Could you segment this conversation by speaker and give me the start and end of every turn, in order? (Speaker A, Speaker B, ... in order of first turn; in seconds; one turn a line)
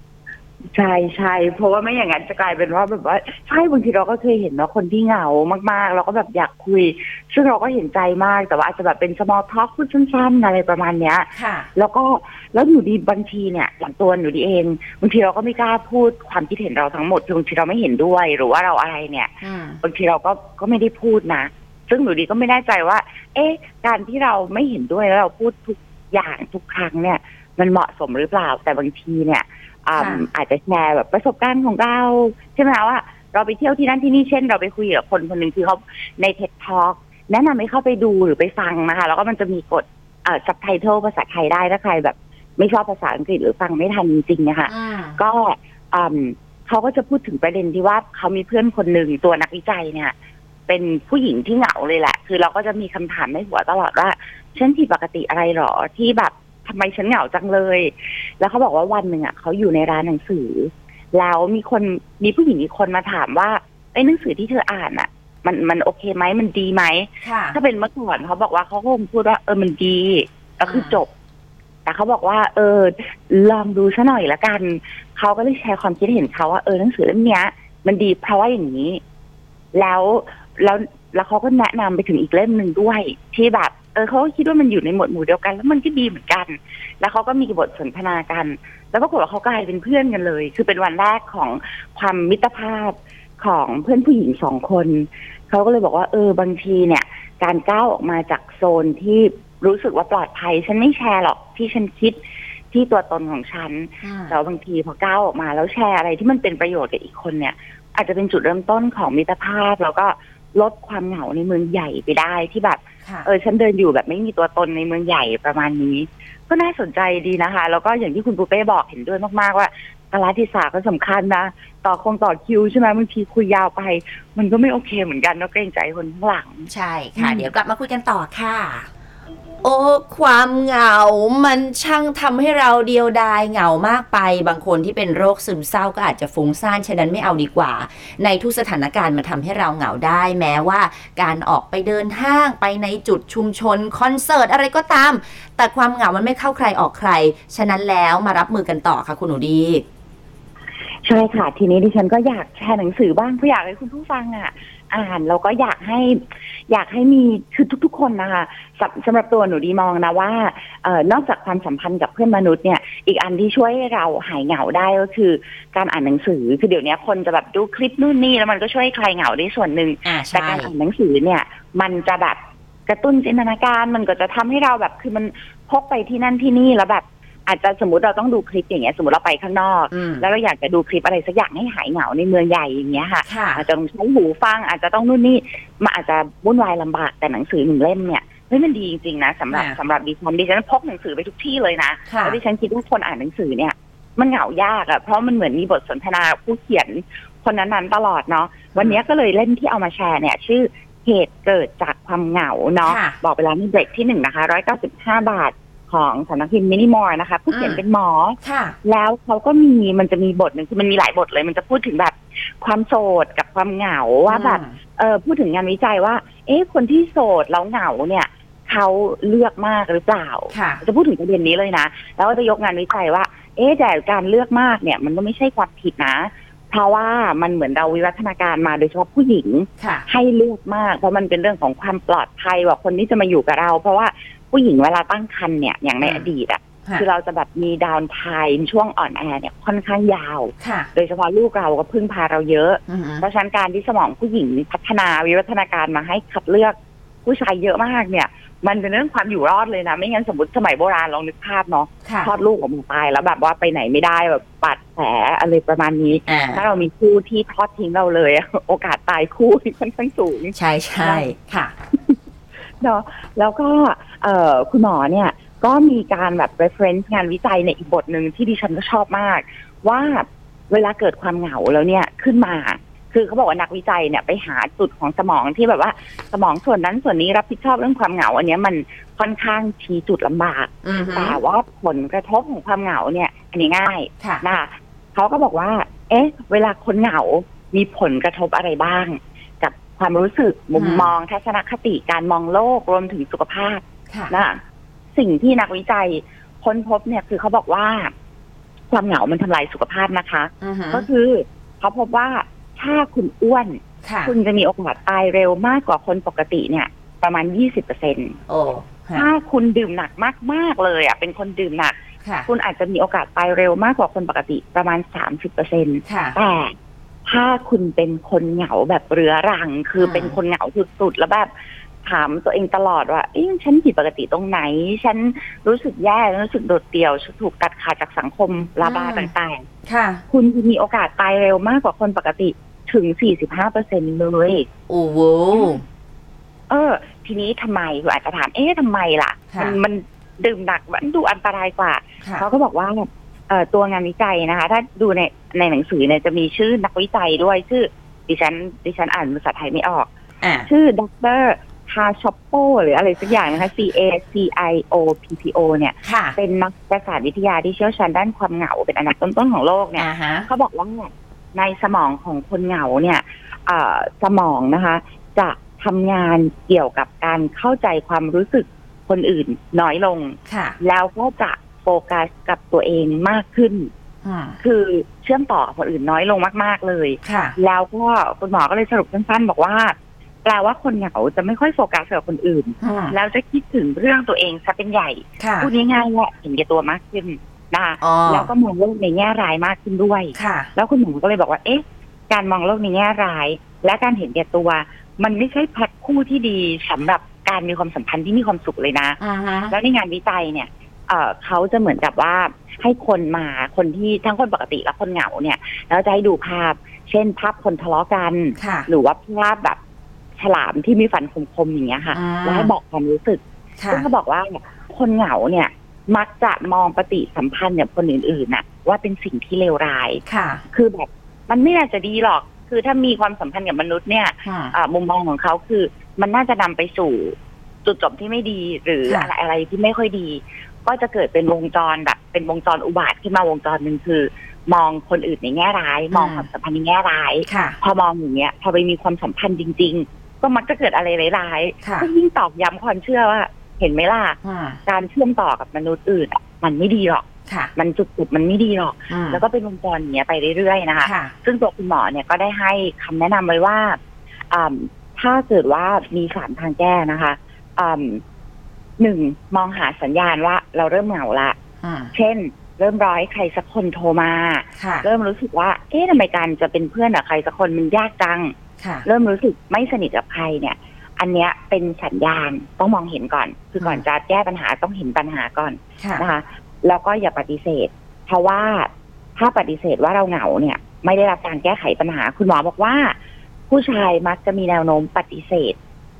Speaker A: 0.7-50.1
Speaker B: 11.3-11.7
Speaker B: 19.4-19.8
Speaker B: 29.9-30.2
Speaker B: 44.7-45.2
Speaker A: 50.7-71.1
Speaker B: 67.2-67.6
Speaker B: 70.6-71.0
Speaker A: 71.8-79.0
Speaker A: 79.7-102.2
Speaker A: 102.7-127.5
Speaker B: 104.0-104.3
Speaker B: 126.7-128.9
Speaker B: 129.6-149.8
Speaker A: 151.0-261.3
Speaker B: 170.0-170.7
Speaker B: 179.9-180.2
Speaker B: 183.2-183.6
Speaker B: 189.5-189.8
Speaker B: 192.1-192.4
Speaker B: 202.8-203.2
Speaker B: 207.5-207.8
Speaker B: 208.4-208.8
Speaker B: 214.3-214.8
Speaker B: 220.5-220.8
Speaker B: 229.8-230.0
Speaker B: 240.6-240.9
Speaker B: 242.9-243.2
Speaker B: 252.0-252.3
Speaker B: 256.3-256.6
Speaker B: 260.5-261.7
Speaker A: 262.8-294.6
Speaker B: 280.8-281.4
Speaker B: 290.7-291.1
Speaker A: 295.1-298.1
Speaker A: 298.9-308.4
Speaker B: 300.6-301.1
Speaker B: 304.0-304.3
Speaker B: 308.5-309.3
Speaker A: 309.1-311.9
Speaker B: 312.2-312.5
Speaker A: 312.5-316.7
Speaker B: 316.1-316.4
Speaker A: 317.2-321.5
Speaker B: 320.0-320.4
Speaker A: 322.0-329.6
Speaker B: 328.8-329.3
Speaker B: 329.9-330.2
Speaker A: 330.3-334.6
Speaker B: 334.9-335.8
Speaker A: 336.7-350.1
Speaker B: 339.5-339.8
Speaker B: 342.2-342.4
Speaker B: 350.4-350.7
Speaker A: 350.7-373.9
Speaker B: 356.0-356.4
Speaker B: 360.0-360.5
Speaker B: 370.5-370.8
Speaker B: 374.2-374.6
Speaker A: 374.6-399.2
Speaker B: 377.2-377.6
Speaker B: 382.8-383.1
Speaker B: 385.4-385.7
Speaker B: 388.0-388.5
Speaker B: 390.3-390.7
Speaker B: 399.2-399.7
Speaker A: 399.7-409.8
Speaker B: 408.6-408.9
Speaker A: 410.4-454.0
Speaker B: 412.1-412.7
Speaker B: 413.8-414.1
Speaker B: 420.2-420.6
Speaker B: 424.4-424.7
Speaker B: 436.1-436.4
Speaker B: 437.4-437.8
Speaker B: 441.8-442.1
Speaker B: 444.4-444.8
Speaker B: 447.5-447.7
Speaker B: 449.1-449.4
Speaker B: 451.0-451.3
Speaker A: 454.5-458.2
Speaker A: 459.0-461.6
Speaker B: 461.8-462.1
Speaker A: 462.1-468.5
Speaker B: 464.8-465.1
Speaker B: 468.8-469.0
Speaker A: 469.0-483.1
Speaker B: 476.0-476.2
Speaker A: 483.7-485.8